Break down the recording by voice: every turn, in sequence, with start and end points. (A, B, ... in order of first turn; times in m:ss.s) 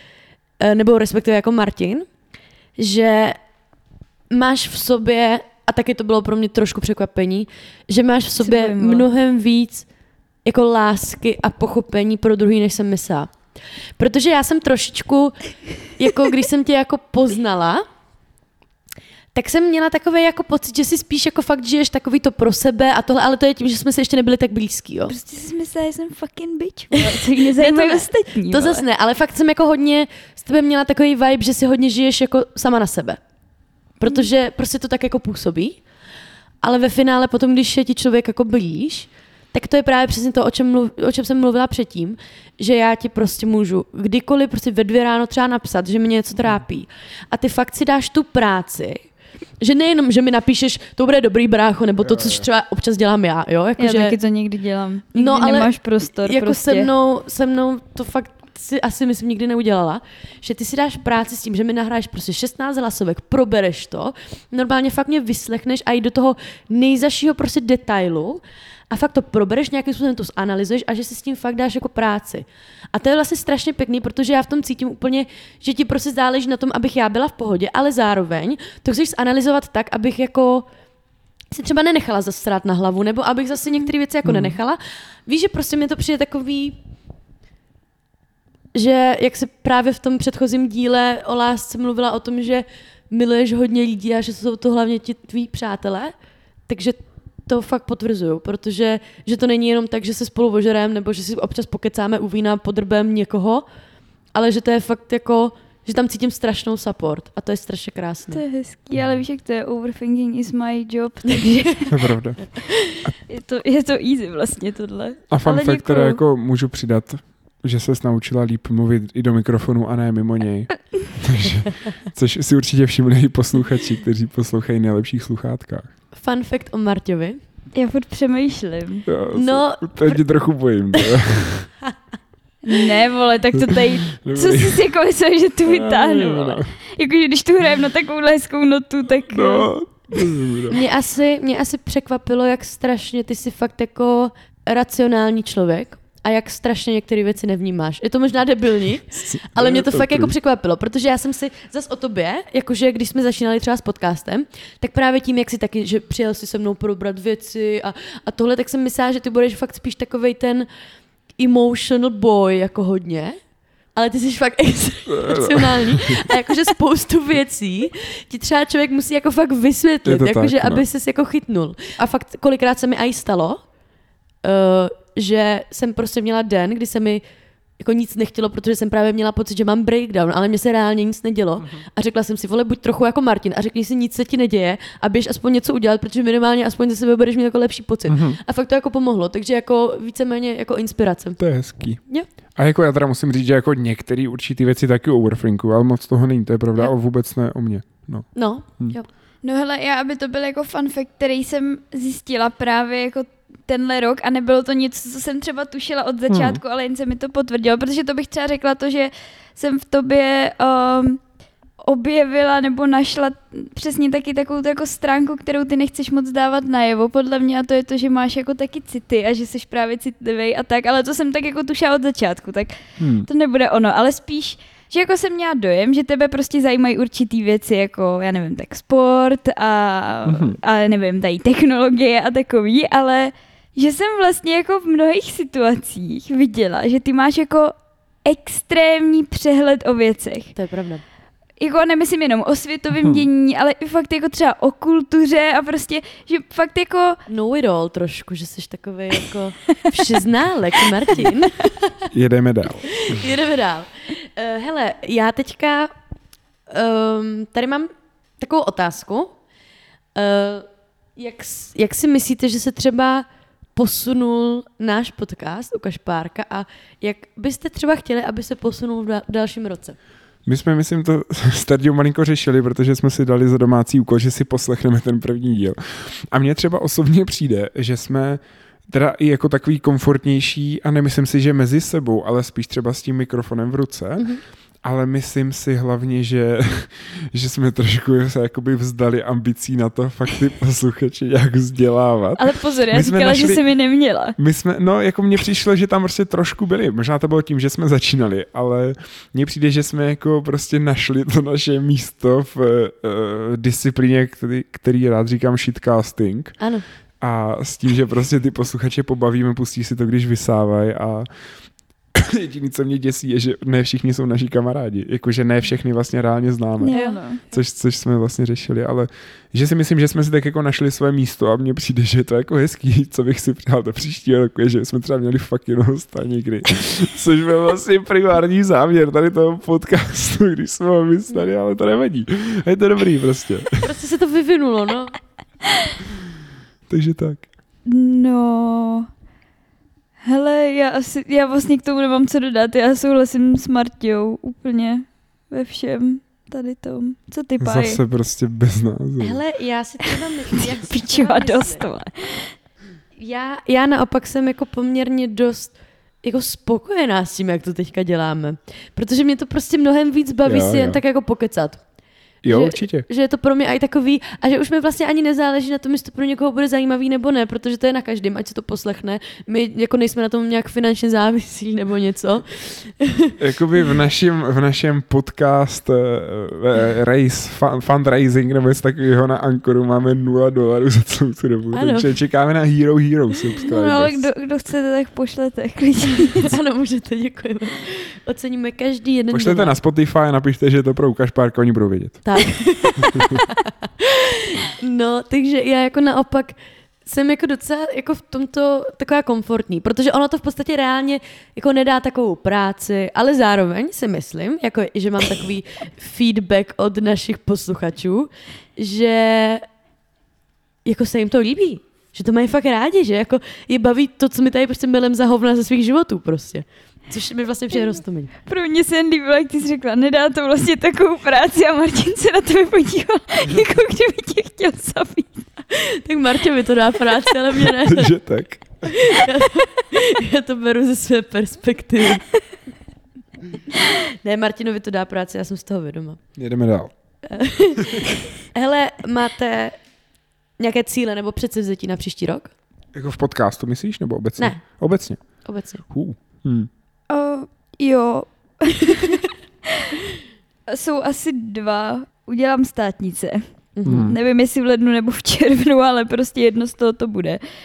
0:00.6-0:02.1 A
0:02.8-0:03.4 A
0:04.3-0:09.9 A
0:08.4-0:09.1 B
0:10.4-0:13.3 A
0:14.0-0:17.8 A
0:19.3-0:25.2 A
0:25.1-0:28.8 B
0:27.0-0:33.2 A
0:34.0-0:35.8 A
0:36.6-0:49.0 A
0:49.6-0:54.2 A
0:52.0-0:52.5 C
0:53.8-0:56.9 B
0:55.2-1:20.7 A
1:21.5-1:26.8 A
1:24.2-1:24.6 C
1:28.7-1:36.2 A
1:36.7-1:43.6 A
1:44.4-1:48.4 A
1:48.3-1:51.9 B
1:49.0-1:49.2 C
1:51.3-1:51.8 A
1:51.9-1:52.5 C
1:53.3-1:56.2 B
1:55.3-2:05.9 C
2:06.2-2:07.4 A
2:07.8-2:09.1 B
2:09.1-2:11.7 C
2:09.3-2:10.3 A
2:12.7-2:19.7 B
2:13.6-2:14.8 C
2:15.7-2:16.7 C
2:19.3-2:20.8 C
2:20.7-2:40.7 A
2:29.2-2:30.3 C
2:41.4-2:43.4 A
2:44.0-2:53.6 A
2:45.1-2:46.3 C
2:50.0-2:50.8 C
2:54.4-2:57.2 A
2:57.8-3:11.4 A
3:08.1-3:08.4 C
3:11.4-3:12.0 C
3:12.5-3:19.0 C
3:18.4-3:19.1 A
3:19.4-3:31.2 B
3:26.3-3:26.6 C
3:31.8-3:57.7 B
3:43.0-3:43.3 C
3:50.3-3:50.6 C
3:58.2-4:00.5 B
4:00.6-4:01.0 A
4:01.6-4:07.2 B
4:07.3-4:12.0 A
4:12.1-4:13.2 C
4:13.1-4:15.9 A
4:16.7-4:19.3 A
4:20.2-4:30.0 A
4:30.5-4:44.3 C
4:44.8-5:06.6 C
4:52.4-4:54.4 B
5:06.6-5:06.8 A
5:07.2-5:11.3 C
5:12.2-5:17.0 C
5:16.8-5:17.4 B
5:16.9-5:17.2 A
5:17.5-5:33.8 C
5:33.8-5:35.2 A
5:36.9-5:37.5 C
5:37.8-5:39.1 B
5:40.2-5:48.0 B
5:47.6-5:49.4 C
5:49.2-5:51.9 A
5:50.5-5:52.5 B
5:53.2-6:01.8 A
6:00.4-6:01.0 C
6:02.4-6:03.1 C
6:02.5-6:13.3 A
6:13.4-6:24.3 C
6:21.7-6:22.1 A
6:23.7-6:26.4 B
6:26.2-6:29.8 A
6:29.3-6:32.2 C
6:32.2-6:49.7 A
6:50.8-6:58.3 A
6:58.5-7:05.5 B
7:05.8-7:08.2 A
7:07.8-7:09.0 C
7:08.9-7:12.2 A
7:14.2-7:16.2 A
7:16.4-7:16.9 C
7:17.3-7:19.8 A
7:20.6-7:22.5 A
7:22.9-7:26.7 C
7:25.4-7:25.8 A
7:27.1-7:29.3 B
7:30.7-7:33.4 B
7:33.8-7:34.1 A
7:33.8-7:34.2 C
7:34.0-7:37.4 B